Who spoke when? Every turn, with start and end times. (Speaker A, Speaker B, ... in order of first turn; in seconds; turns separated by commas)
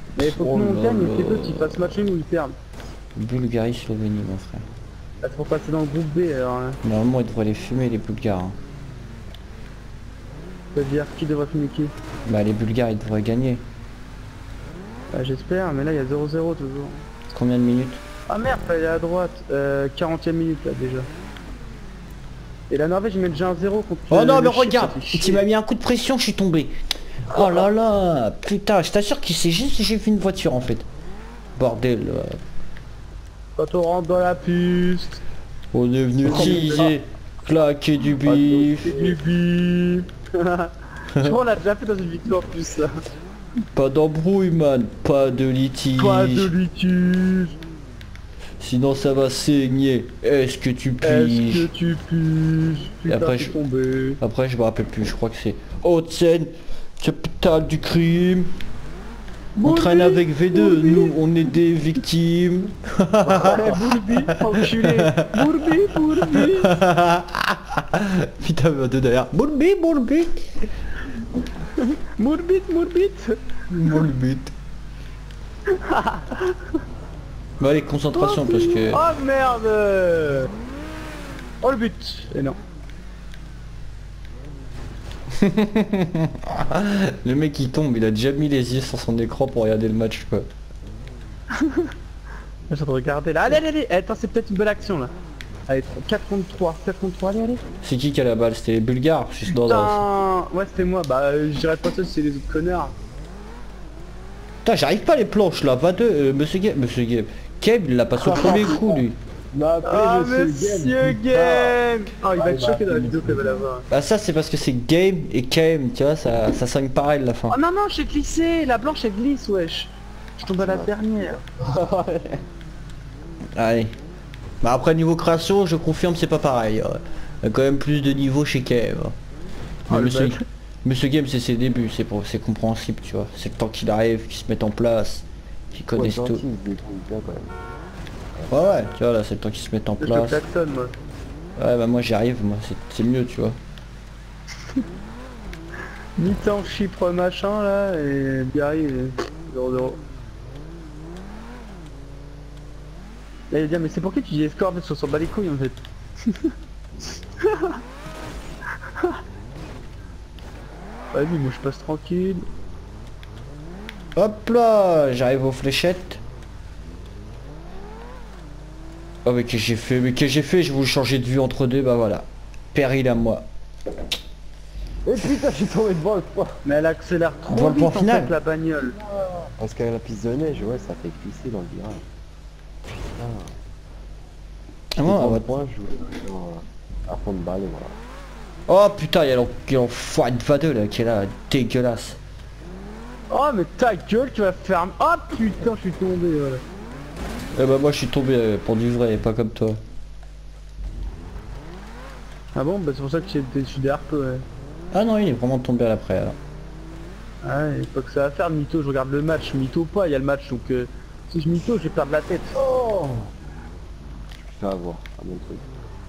Speaker A: 0.1-2.5, Speaker B: 0.2-2.1, Speaker B: 3.1-4.6, Speaker A: 5.2-6.8, Speaker B: 6.8-8.6, Speaker A: 10.7-11.9, Speaker B: 12.2-13.6, Speaker A: 15.1-17.1, Speaker B: 17.3-18.0, Speaker A: 18.3-21.1, Speaker A: 22.7-25.4, Speaker B: 24.1-26.7, Speaker C: 27.3-27.7, Speaker B: 27.3-30.9, Speaker B: 31.6-32.4, Speaker A: 33.6-35.2, Speaker B: 35.7-39.0, Speaker A: 36.2-36.9, Speaker C: 36.3-36.7, Speaker C: 38.2-39.2, Speaker A: 38.8-42.9, Speaker B: 43.7-46.5, Speaker A: 46.0-47.6, Speaker B: 48.6-51.7, Speaker A: 51.0-54.2, Speaker B: 53.0-53.6, Speaker B: 54.2-58.5, Speaker A: 59.5-61.2, Speaker B: 59.6-70.4, Speaker C: 63.2-63.9, Speaker A: 63.5-66.8, Speaker A: 71.8-74.1, Speaker B: 73.7-74.5, Speaker A: 75.7-76.7, Speaker B: 77.6-79.0, Speaker A: 78.1-80.5, Speaker A: 81.6-82.5, Speaker B: 85.3-90.5, Speaker A: 91.5-91.9, Speaker A: 92.7-95.1, Speaker A: 95.7-97.6, Speaker B: 97.8-100.0, Speaker A: 99.5-102.9, Speaker B: 104.6-109.2, Speaker C: 108.1-111.8, Speaker A: 109.8-113.9, Speaker C: 112.3-113.7, Speaker B: 113.9-117.6, Speaker A: 117.5-121.4, Speaker C: 120.5-122.4, Speaker B: 123.5-123.9, Speaker B: 124.6-129.1, Speaker B: 129.9-136.4, Speaker A: 129.9-130.4, Speaker C: 135.9-137.5, Speaker B: 138.5-140.4, Speaker A: 140.0-140.9, Speaker B: 141.6-143.6, Speaker A: 146.2-150.0, Speaker A: 153.5-156.5, Speaker A: 157.4-157.8, Speaker A: 161.1-162.5, Speaker B: 164.2-166.2, Speaker B: 169.2-173.4, Speaker C: 175.0-176.6, Speaker A: 176.6-178.9, Speaker B: 177.5-178.3, Speaker C: 178.9-182.0, Speaker C: 183.1-183.6, Speaker B: 184.9-185.5, Speaker C: 185.0-187.9, Speaker B: 188.7-192.2, Speaker A: 193.3-196.6, Speaker B: 197.5-199.8, Speaker A: 202.5-204.4, Speaker B: 204.9-206.3, Speaker A: 207.4-212.6, Speaker C: 212.6-213.3, Speaker C: 214.4-215.7